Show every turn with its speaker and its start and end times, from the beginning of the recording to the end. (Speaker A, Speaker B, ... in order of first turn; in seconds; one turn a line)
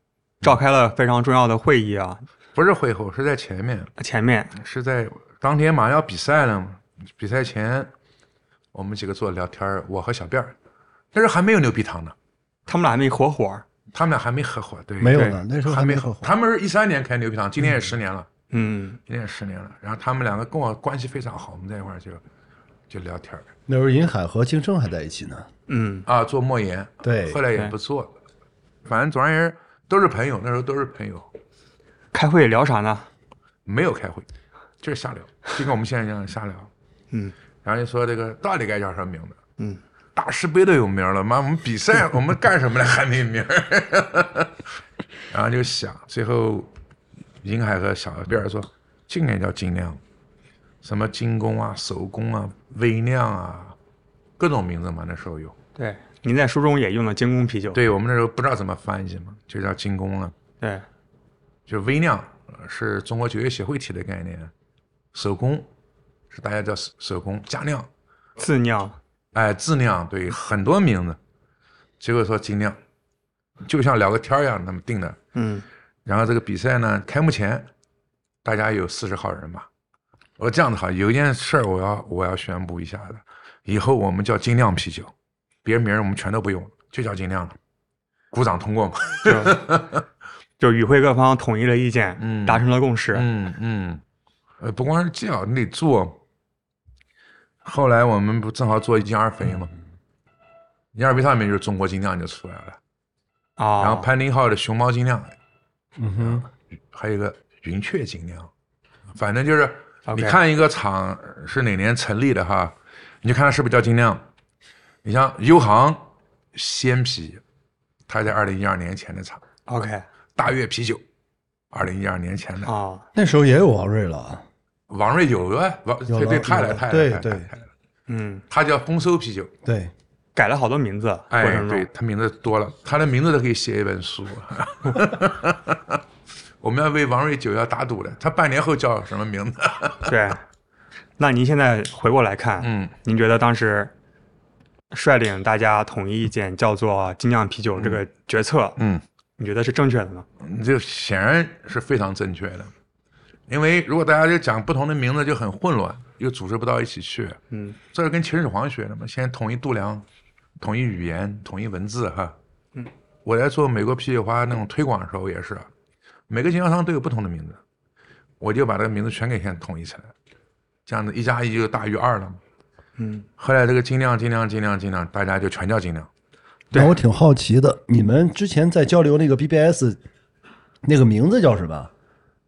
Speaker A: 0.4-2.2
Speaker B: 2.5-3.9
Speaker A: 4.0-4.5
Speaker B: 4.5-7.9
Speaker B: 8.7-10.5
Speaker B: 11.1-12.1
Speaker A: 12.7-13.6
Speaker B: 13.9-18.3
Speaker C: 15.0-16.3
Speaker A: 15.1-15.4
Speaker A: 18.5-19.0
Speaker B: 19.1-22.2
Speaker B: 22.9-23.5
Speaker C: 23.7-25.5
Speaker A: 25.7-26.1
Speaker B: 26.1-28.1
Speaker C: 27.0-27.4
Speaker B: 28.8-31.3
Speaker A: 32.1-33.1
Speaker B: 33.6-34.2
Speaker B: 34.8-36.7
Speaker B: 37.6-39.4
Speaker B: 40.1-44.6
Speaker B: 45.3-46.7
Speaker B: 47.4-50.0
Speaker B: 50.8-53.8
Speaker B: 54.4-55.5
Speaker A: 55.8-57.8
Speaker B: 57.7-60.3
Speaker A: 60.6-60.9
Speaker B: 61.7-64.5
Speaker B: 65.1-65.7
Speaker B: 66.3-67.9
Speaker A: 68.4-69.0
Speaker B: 69.3-71.2
Speaker B: 72.0-72.8
Speaker B: 73.6-75.2
Speaker A: 75.3-75.6
Speaker B: 76.0-77.7
Speaker B: 78.4-79.7
Speaker B: 80.4-85.1
Speaker B: 85.6-87.6
Speaker B: 88.3-90.0
Speaker A: 89.2-89.6
Speaker A: 90.6-93.2
Speaker B: 92.2-94.0
Speaker B: 94.6-96.2
Speaker B: 97.6-99.7
Speaker B: 100.9-102.8
Speaker A: 103.6-104.1
Speaker B: 103.8-105.3
Speaker C: 106.0-106.4
Speaker B: 106.2-108.5
Speaker B: 109.1-114.2
Speaker A: 110.1-110.4
Speaker B: 115.0-117.4
Speaker B: 118.1-119.4
Speaker A: 119.7-120.0
Speaker B: 120.3-121.0
Speaker B: 121.7-122.7
Speaker A: 122.6-123.0
Speaker C: 123.1-124.4
Speaker B: 124.9-127.7
Speaker C: 126.1-127.5
Speaker A: 128.1-128.4
Speaker B: 128.5-129.5
Speaker C: 129.6-129.9
Speaker A: 130.3-131.9
Speaker B: 131.3-136.0
Speaker B: 136.6-140.1
Speaker A: 140.1-140.4
Speaker A: 141.2-143.9
Speaker B: 142.6-142.9
Speaker A: 144.9-148.8
Speaker B: 148.8-149.0
Speaker A: 149.4-150.2
Speaker B: 150.4-152.7
Speaker B: 153.5-157.4
Speaker A: 157.5-157.8
Speaker B: 157.9-160.0
Speaker B: 160.6-162.3
Speaker B: 163.2-165.7
Speaker B: 166.3-167.6
Speaker B: 168.4-170.1
Speaker B: 170.9-172.4
Speaker A: 173.0-173.2
Speaker B: 173.4-176.1
Speaker C: 176.7-180.0
Speaker C: 180.8-181.9